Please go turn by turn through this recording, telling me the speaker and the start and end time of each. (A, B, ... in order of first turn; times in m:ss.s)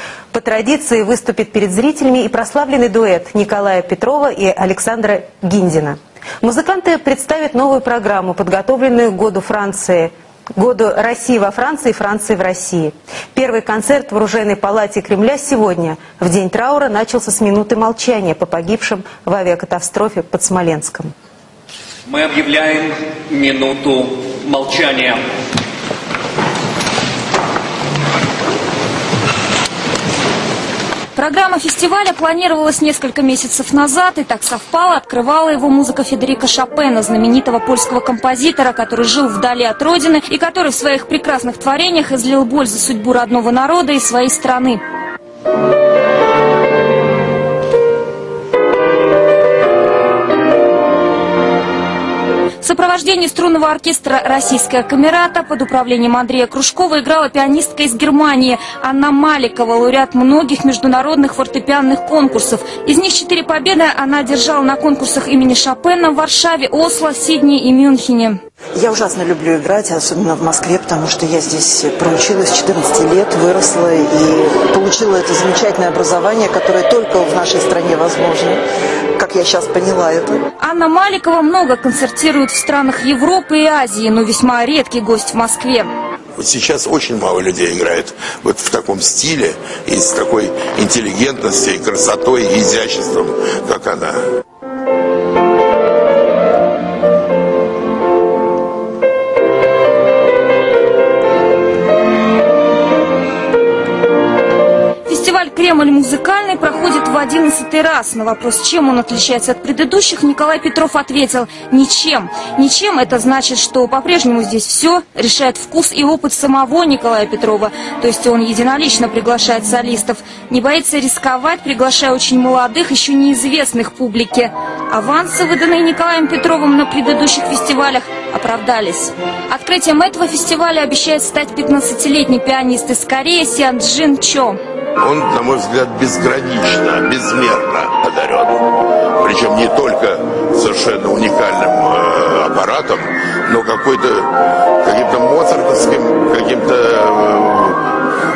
0:00.3-0:21.1 A
0:22.1-0:25.2 B
0:31.2-0:44.8 C
0:52.6-1:08.4 C
1:08.8-1:18.6 D
1:19.2-1:20.4 D
1:20.6-1:25.9 C
1:26.4-1:34.2 E
1:45.1-2:14.6 C
2:15.0-2:27.9 E